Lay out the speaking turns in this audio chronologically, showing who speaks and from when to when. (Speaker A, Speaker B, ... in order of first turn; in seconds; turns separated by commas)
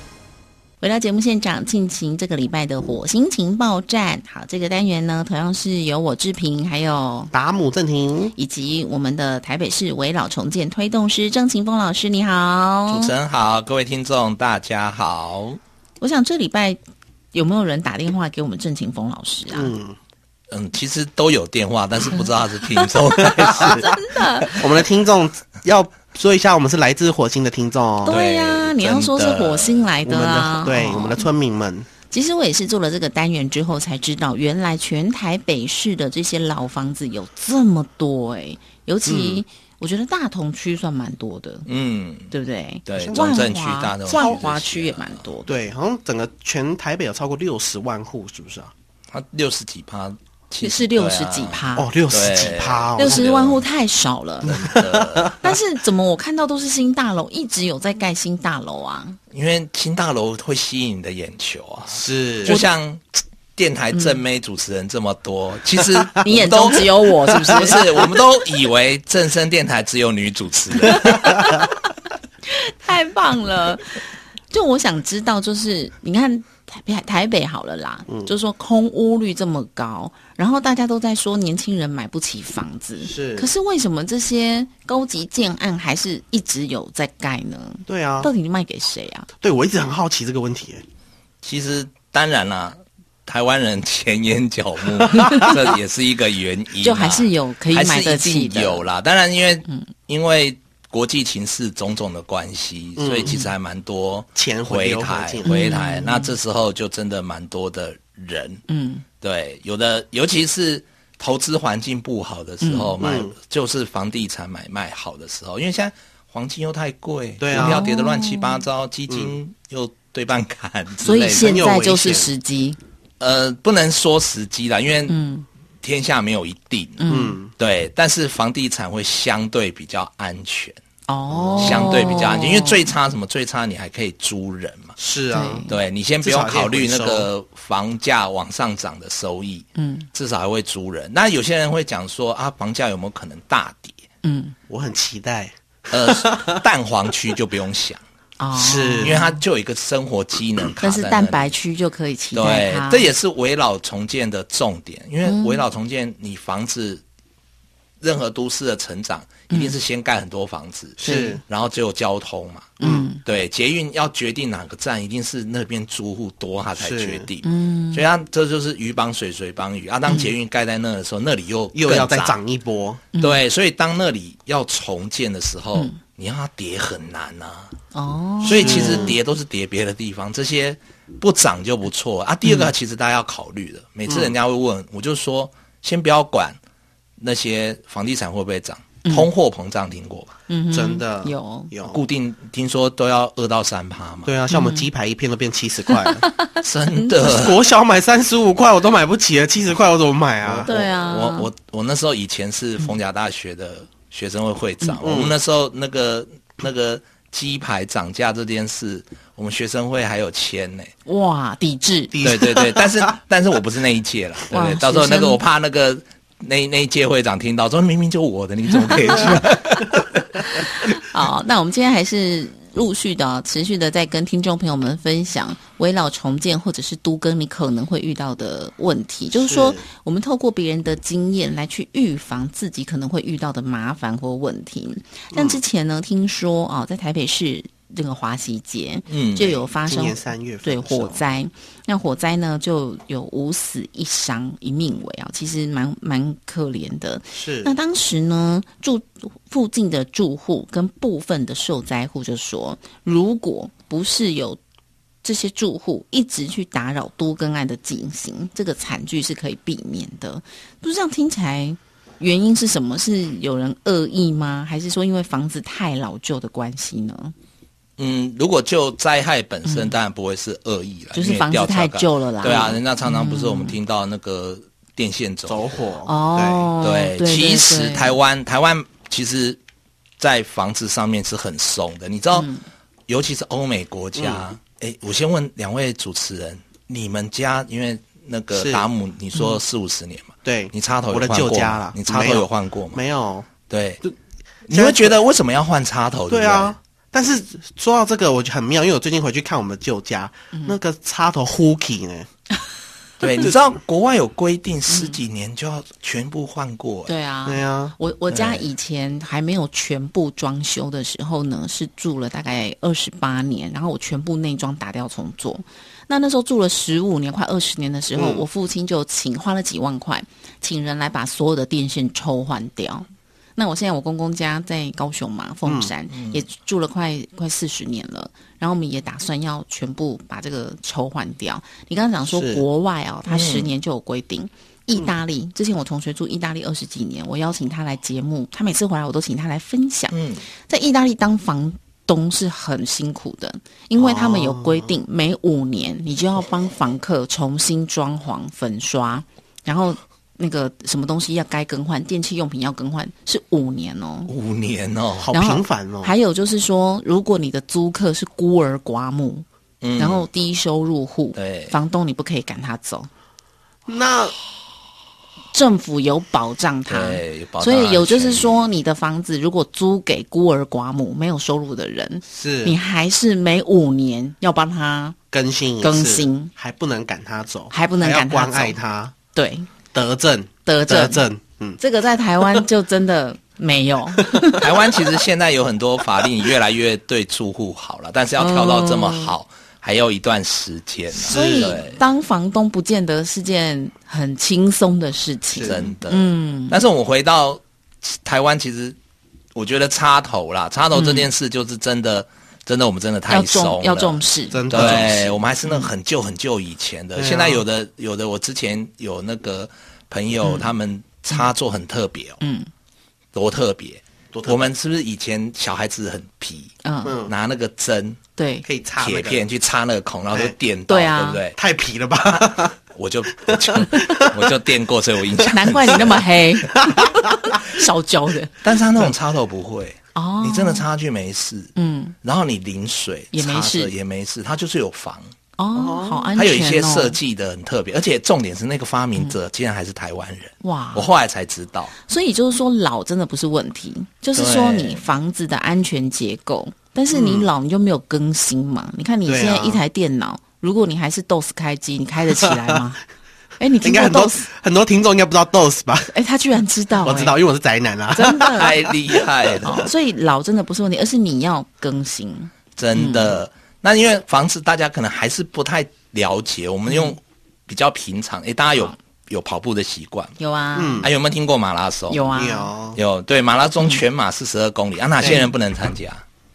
Speaker A: 0.8-7.3, Speaker B: 7.3-8.3, Speaker A: 8.3-13.1, Speaker C: 12.9-15.6, Speaker A: 16.0-16.8, Speaker A: 17.3-19.7, Speaker B: 19.5-20.0, Speaker C: 20.5-24.5, Speaker B: 23.3-23.9, Speaker A: 23.8-24.6, Speaker B: 24.5-28.2, Speaker C: 28.1-29.9, Speaker A: 28.1-31.2, Speaker B: 30.1-31.9, Speaker A: 32.1-41.7, Speaker B: 39.1-39.4, Speaker C: 41.7-42.3, Speaker A: 42.3-45.5, Speaker C: 42.9-45.3, Speaker B: 42.9-43.4, Speaker B: 44.1-44.4, Speaker B: 45.5-48.7, Speaker C: 49.1-53.6, Speaker A: 50.6-51.9, Speaker B: 51.8-53.3, Speaker A: 53.0-54.7, Speaker C: 54.4-55.4, Speaker B: 54.5-55.4, Speaker A: 55.4-59.2, Speaker C: 59.3-71.4, Speaker B: 61.9-62.6, Speaker A: 66.2-68.1, Speaker A: 70.8-71.8, Speaker A: 72.5-89.3, Speaker B: 83.0-83.5, Speaker B: 87.9-88.3, Speaker B: 89.4-90.8, Speaker C: 91.4-108.6, Speaker B: 95.0-95.5, Speaker A: 95.2-95.5, Speaker A: 96.8-98.8, Speaker B: 103.0-103.4, Speaker B: 104.3-105.6, Speaker A: 105.5-106.4, Speaker A: 108.7-109.0, Speaker C: 109.2-121.6, Speaker A: 112.6-113.0, Speaker B: 113.0-113.4, Speaker B: 117.4-117.8, Speaker A: 117.5-118.6, Speaker B: 119.1-119.3, Speaker A: 121.0-122.8, Speaker B: 121.3-122.3, Speaker C: 123.2-125.2, Speaker A: 125.1-125.5, Speaker C: 125.8-127.0, Speaker A: 127.0-127.4, Speaker B: 127.1-127.5, Speaker C: 127.6-130.8, Speaker A: 131.1-132.9, Speaker B: 131.3-132.2, Speaker C: 131.6-134.9, Speaker B: 135.0-135.7, Speaker A: 135.3-135.7, Speaker C: 135.7-144.0, Speaker B: 136.2-137.3, Speaker A: 139.8-140.1, Speaker A: 144.2-144.6, Speaker B: 144.7-146.6, Speaker C: 145.9-148.0, Speaker A: 148.4-149.4, Speaker B: 148.5-149.2, Speaker C: 149.0-151.5, Speaker A: 150.8-153.1, Speaker C: 152.3-157.0, Speaker A: 155.2-155.6, Speaker C: 158.0-172.4, Speaker A: 159.5-159.8, Speaker B: 161.0-161.4, Speaker A: 161.0-161.4, Speaker A: 162.8-163.2, Speaker B: 162.8-163.1, Speaker B: 166.8-167.3, Speaker A: 167.4-168.1, Speaker A: 170.1-170.3, Speaker B: 171.7-173.0, Speaker A: 173.1-173.4, Speaker C: 173.2-177.7, Speaker A: 177.9-179.2, Speaker C: 178.4-186.6, Speaker B: 178.5-179.2, Speaker A: 182.4-182.7, Speaker B: 184.1-184.3, Speaker C: 187.2-190.3, Speaker A: 189.0-189.3, Speaker A: 190.5-191.7, Speaker B: 190.7-192.0, Speaker C: 191.9-194.3, Speaker B: 194.2-196.3, Speaker A: 194.5-194.9, Speaker A: 195.9-197.1, Speaker C: 196.6-197.6, Speaker B: 197.2-200.8, Speaker C: 200.4-210.9, Speaker A: 200.7-201.5, Speaker B: 205.0-205.3, Speaker A: 211.1-212.2, Speaker B: 212.1-213.2, Speaker C: 212.2-221.0, Speaker A: 214.5-215.4, Speaker A: 218.8-219.6, Speaker A: 220.4-254.6, Speaker B: 229.3-229.8, Speaker B: 235.3-235.6, Speaker C: 239.1-239.6, Speaker B: 239.9-241.2, Speaker B: 247.3-247.7, Speaker A: 255.2-267.3, Speaker C: 268.0-275.8, Speaker A: 269.7-269.9, Speaker A: 271.1-273.8, Speaker B: 272.5-272.8, Speaker B: 275.5-276.7, Speaker A: 276.1-278.2, Speaker C: 276.8-279.6, Speaker C: 280.2-282.5, Speaker A: 282.3-282.6, Speaker C: 283.1-293.0, Speaker B: 284.2-284.4, Speaker B: 288.6-288.9, Speaker A: 289.3-289.6, Speaker B: 290.4-293.5, Speaker C: 293.7-294.0, Speaker C: 294.7-296.8, Speaker B: 294.7-295.2, Speaker B: 296.3-302.3, Speaker C: 303.2-307.1, Speaker A: 304.9-305.2, Speaker A: 307.1-323.1, Speaker B: 307.5-307.9, Speaker C: 308.3-308.7, Speaker B: 318.1-318.4, Speaker A: 323.6-354.3, Speaker B: 325.7-325.9, Speaker C: 326.1-326.4, Speaker B: 332.3-332.6, Speaker C: 333.3-333.7, Speaker C: 340.1-340.4, Speaker B: 344.0-344.9, Speaker C: 354.3-355.3, Speaker B: 355.2-356.1, Speaker A: 355.3-359.4, Speaker C: 359.8-360.3, Speaker A: 360.0-363.1, Speaker C: 361.4-361.8, Speaker B: 363.9-364.4, Speaker A: 365.5-375.2, Speaker C: 366.9-368.6, Speaker B: 372.3-372.8, Speaker B: 375.3-379.1, Speaker A: 375.8-376.5, Speaker A: 377.7-378.8, Speaker A: 379.3-379.7, Speaker B: 379.9-381.8, Speaker A: 380.7-381.2, Speaker A: 381.8-384.7, Speaker B: 384.2-384.6, Speaker C: 384.6-392.0, Speaker A: 388.4-389.3, Speaker B: 391.2-391.8, Speaker A: 391.3-396.8, Speaker B: 395.6-395.9, Speaker C: 395.6-399.0, Speaker C: 399.5-412.4, Speaker A: 400.9-401.3, Speaker A: 403.3-405.9, Speaker B: 404.5-405.3, Speaker B: 407.2-407.6, Speaker A: 410.4-410.7, Speaker A: 412.4-412.7, Speaker C: 413.3-416.7, Speaker B: 414.3-414.7, Speaker A: 416.8-417.2, Speaker B: 417.1-417.3, Speaker C: 417.3-418.2, Speaker A: 418.4-418.6, Speaker B: 418.6-419.4, Speaker C: 419.0-421.6, Speaker A: 420.9-421.4, Speaker B: 421.6-422.8, Speaker C: 422.3-426.3, Speaker B: 423.4-424.6, Speaker A: 425.5-428.6, Speaker B: 426.7-427.5, Speaker C: 428.6-435.3, Speaker A: 430.1-430.9, Speaker A: 431.8-432.1, Speaker A: 433.3-433.9, Speaker A: 435.6-437.2, Speaker B: 435.8-436.4, Speaker C: 436.4-441.9, Speaker A: 440.6-441.1, Speaker A: 442.0-453.0, Speaker C: 444.4-445.0, Speaker B: 447.1-447.5, Speaker B: 449.3-449.8, Speaker B: 452.4-452.8, Speaker A: 453.6-454.5, Speaker B: 453.8-456.1, Speaker A: 456.1-457.4, Speaker B: 457.0-458.8, Speaker A: 458.1-458.9, Speaker C: 458.5-459.9, Speaker A: 459.6-463.4, Speaker C: 462.8-470.4, Speaker A: 466.9-467.1, Speaker A: 470.4-471.1, Speaker B: 470.8-471.1, Speaker C: 471.0-472.2, Speaker A: 472.1-472.7, Speaker B: 472.3-473.0, Speaker C: 472.9-476.2, Speaker B: 475.2-475.5